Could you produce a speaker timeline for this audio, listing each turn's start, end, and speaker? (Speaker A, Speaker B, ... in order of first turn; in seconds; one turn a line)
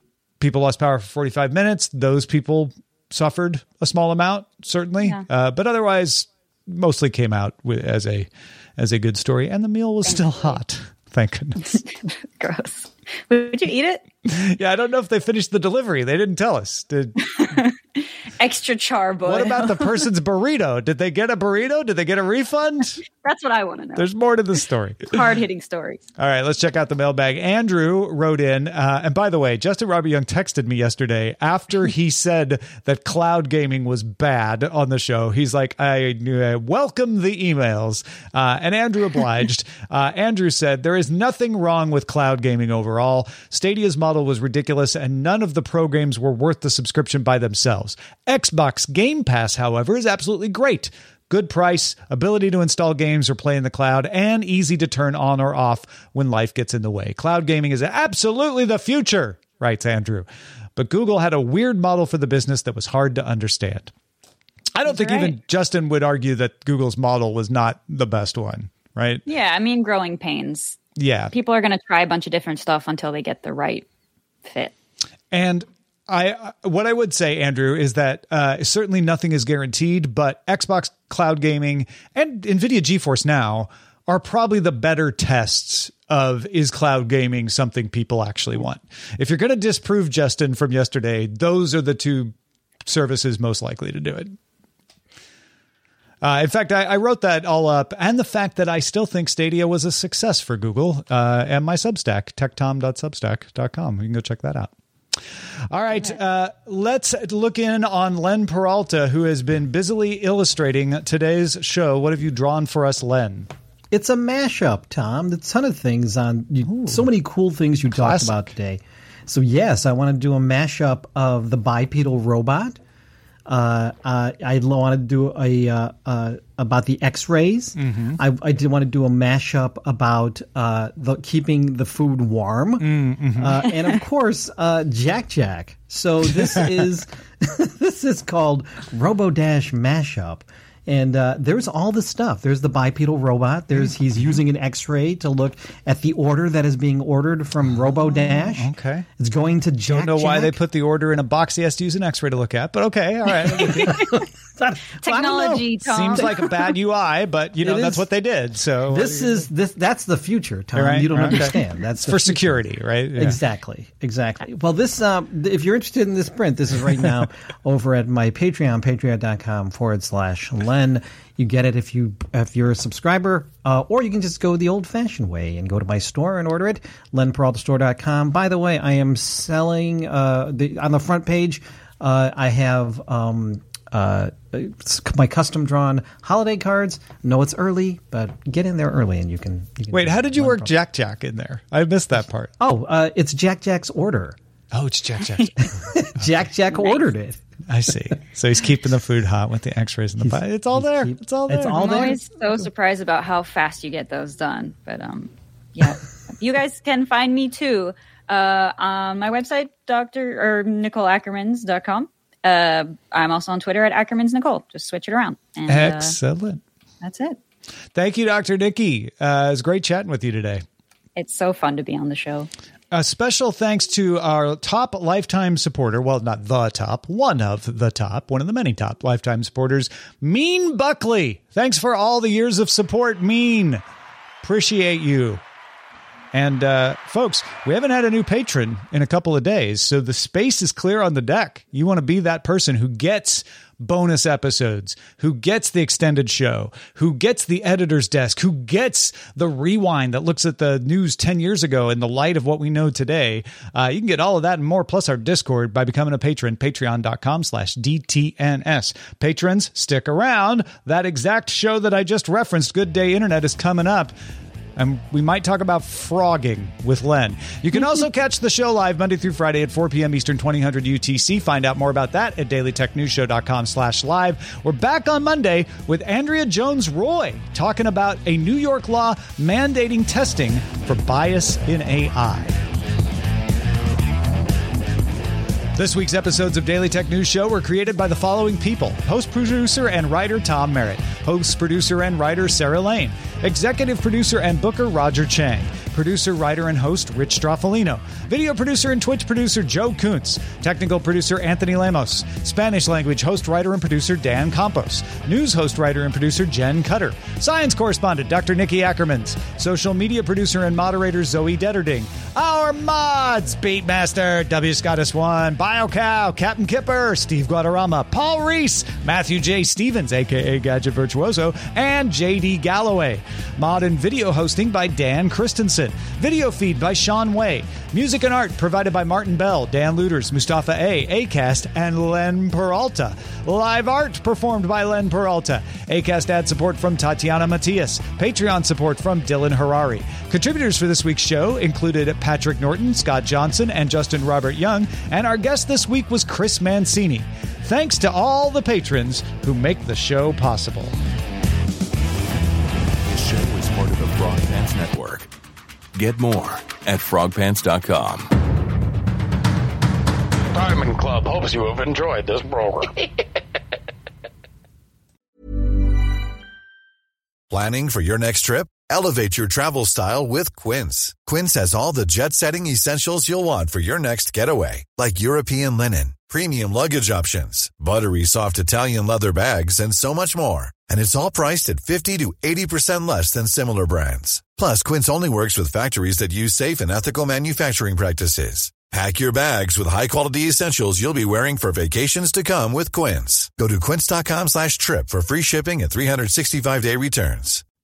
Speaker A: 0.4-11.8
Speaker B: 10.1-10.6
Speaker B: 11.6-14.0
Speaker A: 14.2-17.2
Speaker B: 17.2-20.1
Speaker A: 19.2-23.0
Speaker B: 23.2-24.1
Speaker A: 24.0-25.2
Speaker B: 25.1-26.0
Speaker A: 26.2-63.9
Speaker A: 64.8-69.2
Speaker B: 64.9-65.3
Speaker B: 69.3-70.8
Speaker A: 71.0-71.3
Speaker B: 71.3-73.9
Speaker B: 74.5-74.7
Speaker A: 75.3-94.4
Speaker A: 96.2-104.7
Speaker A: 105.7-113.5
Speaker C: 113.9-122.8
Speaker A: 116.7-117.1
Speaker A: 117.9-118.4
Speaker C: 123.5-150.6
Speaker A: 127.8-128.2
Speaker A: 132.8-133.7
Speaker A: 136.4-136.7
Speaker A: 147.8-149.1
Speaker A: 149.8-154.0
Speaker C: 153.6-154.8
Speaker B: 153.8-154.2
Speaker B: 155.0-156.3
Speaker A: 155.1-159.4
Speaker C: 157.6-158.1
Speaker C: 158.9-162.6
Speaker A: 160.8-163.4
Speaker C: 163.2-190.7
Speaker A: 189.9-192.5
Speaker C: 192.6-194.4
Speaker A: 194.7-195.7
Speaker C: 195.8-197.4
Speaker A: 197.7-202.2
Speaker C: 200.2-202.2
Speaker B: 201.8-216.2
Speaker A: 215.7-216.6
Speaker B: 217.0-217.4
Speaker A: 217.9-220.7
Speaker B: 221.2-222.5
Speaker A: 222.9-233.8
Speaker A: 234.4-235.4
Speaker A: 236.3-264.1
Speaker A: 264.8-282.6
Speaker A: 285.7-350.9
Speaker D: 353.1-355.3
Speaker D: 355.9-358.3
Speaker E: 360.5-363.0
Speaker F: 367.5-397.6